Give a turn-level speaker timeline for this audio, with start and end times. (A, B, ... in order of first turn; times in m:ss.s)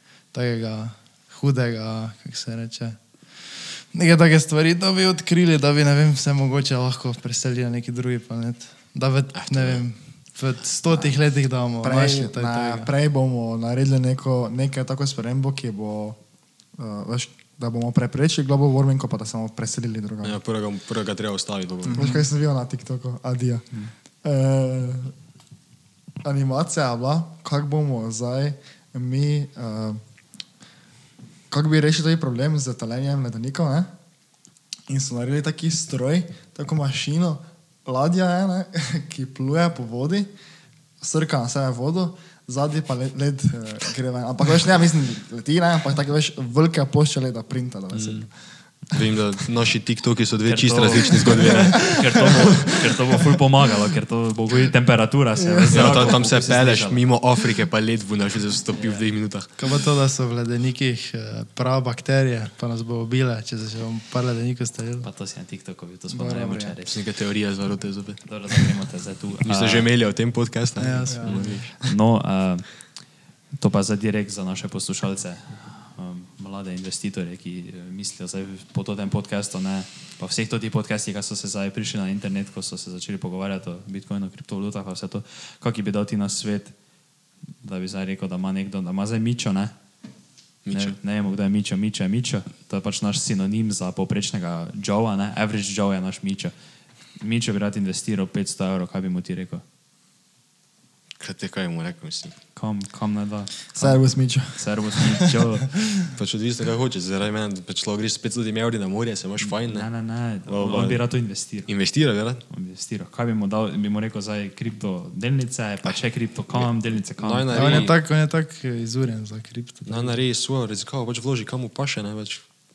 0:00.3-0:03.0 A
0:03.5-0:12.9 A
0:09.3-0:09.8 B
0:11.8-0:16.2 C
0:16.8-0:20.4 C
0:20.2-0:22.0 B
0:21.9-0:22.2 A
0:21.9-0:23.6 C
0:24.2-0:25.1 C
0:26.2-0:30.0 C
0:31.5-0:33.9 C
0:34.9-0:40.3 C
0:41.0-0:48.3 C
0:47.9-0:48.3 B
0:48.9-0:52.8 B
0:50.4-0:57.0 D
0:55.4-0:56.1 C
0:55.7-0:59.5 B
0:58.8-0:59.1 D
0:59.6-1:05.1 A
1:05.0-1:07.0 D
1:06.1-1:06.8 C
1:06.9-1:08.7 B
1:08.3-1:09.9 D
1:09.4-1:11.7 B
1:10.8-1:11.6 A
1:11.1-1:11.9 C
1:11.8-1:12.7 D
1:13.6-1:26.7 D
1:27.6-1:29.7 D
1:30.6-1:31.0 B
1:30.7-1:36.5 D
1:37.2-1:39.6 D
1:41.2-1:42.4 B
1:42.6-1:46.0 D
1:43.8-1:44.6 C
1:46.2-1:49.9 B
1:49.4-1:51.7 D
1:50.5-1:51.0 B
1:51.7-1:52.4 B
1:52.5-1:57.9 D
1:56.5-1:58.0 B
1:57.5-2:00.2 A
1:59.9-2:02.4 B